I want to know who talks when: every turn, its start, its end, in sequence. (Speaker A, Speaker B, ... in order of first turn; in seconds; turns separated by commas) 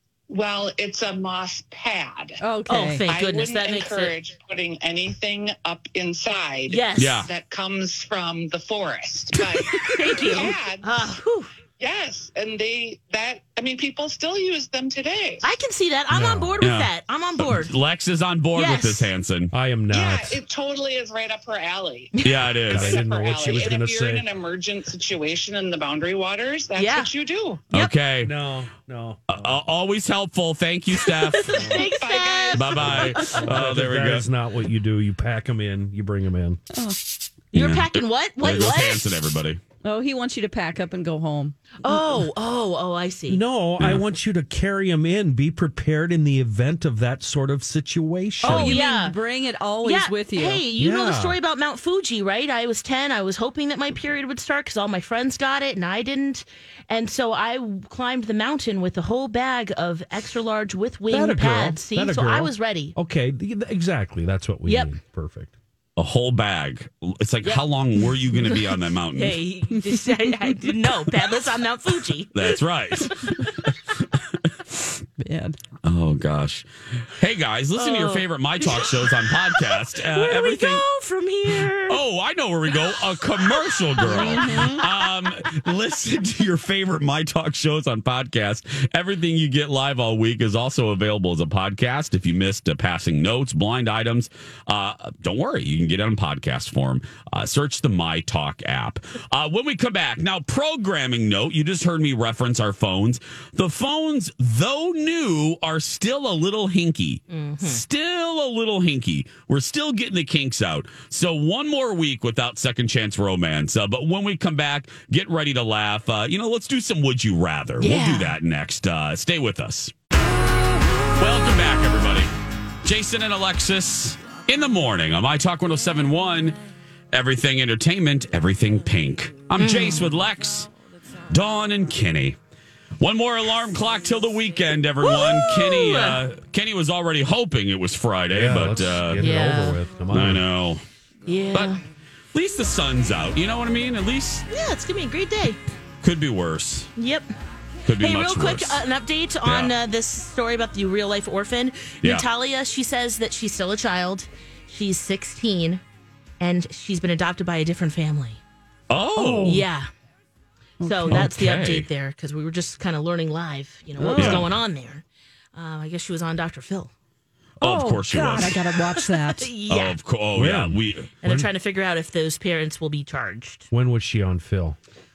Speaker A: 0.3-2.4, Speaker B: 2.4-3.0, Speaker C: 2.7-4.2, Speaker A: 3.1-11.2, Speaker C: 6.7-7.2, Speaker D: 6.9-7.3, Speaker C: 9.8-11.5, Speaker A: 11.8-15.6, Speaker C: 15.4-17.7, Speaker E: 16.1-16.6, Speaker D: 16.6-19.5, Speaker C: 18.6-19.1, Speaker E: 19.5-20.4, Speaker A: 19.9-27.6, Speaker C: 22.1-22.6, Speaker D: 22.2-23.0, Speaker E: 22.6-24.3, Speaker C: 26.8-27.1, Speaker D: 27.7-28.4, Speaker E: 28.2-29.6, Speaker D: 29.3-31.7, Speaker C: 31.0-33.6, Speaker A: 31.8-32.8, Speaker D: 32.5-34.3, Speaker E: 32.8-36.6, Speaker B: 36.7-37.0, Speaker C: 37.5-39.2, Speaker D: 37.5-39.6, Speaker B: 39.8-41.7, Speaker C: 41.8-43.4, Speaker E: 43.3-48.8, Speaker D: 43.8-44.0, Speaker C: 48.4-49.2, Speaker B: 48.4-50.6, Speaker C: 49.8-63.0, Speaker E: 50.8-51.4, Speaker E: 61.1-65.5, Speaker C: 64.7-64.9, Speaker D: 66.0-69.4, Speaker C: 68.4-72.6, Speaker D: 72.3-75.0, Speaker B: 75.2-75.6, Speaker D: 75.8-80.8, Speaker C: 77.8-82.0, Speaker D: 81.9-119.9, Speaker C: 82.7-84.7, Speaker B: 84.0-84.8, Speaker C: 107.3-107.8, Speaker C: 117.8-118.4, Speaker D: 121.2-122.3, Speaker D: 122.8-126.6, Speaker D: 127.1-130.7, Speaker C: 129.6-130.1, Speaker D: 131.3-132.4, Speaker D: 133.0-139.3, Speaker C: 135.0-136.2, Speaker E: 138.3-140.5, Speaker C: 139.2-139.8, Speaker D: 140.1-140.8, Speaker C: 141.3-141.8, Speaker D: 142.3-144.4, Speaker C: 144.5-145.6, Speaker D: 146.0-146.9, Speaker C: 147.0-147.3, Speaker D: 147.8-148.8, Speaker C: 148.0-155.8, Speaker D: 149.4-149.8, Speaker C: 156.4-158.4, Speaker D: 158.9-159.7, Speaker B: 159.2-159.7, Speaker C: 159.4-159.9, Speaker B: 160.8-161.2, Speaker C: 160.8-165.0, Speaker D: 161.1-161.9, Speaker B: 164.0-164.4, Speaker D: 164.1-164.5, Speaker C: 165.6-166.9, Speaker D: 167.6-168.7, Speaker B: 167.6-169.5, Speaker C: 169.4-170.0, Speaker D: 169.7-171.2, Speaker E: 170.3-171.5, Speaker C: 171.2-173.7, Speaker E: 173.7-174.8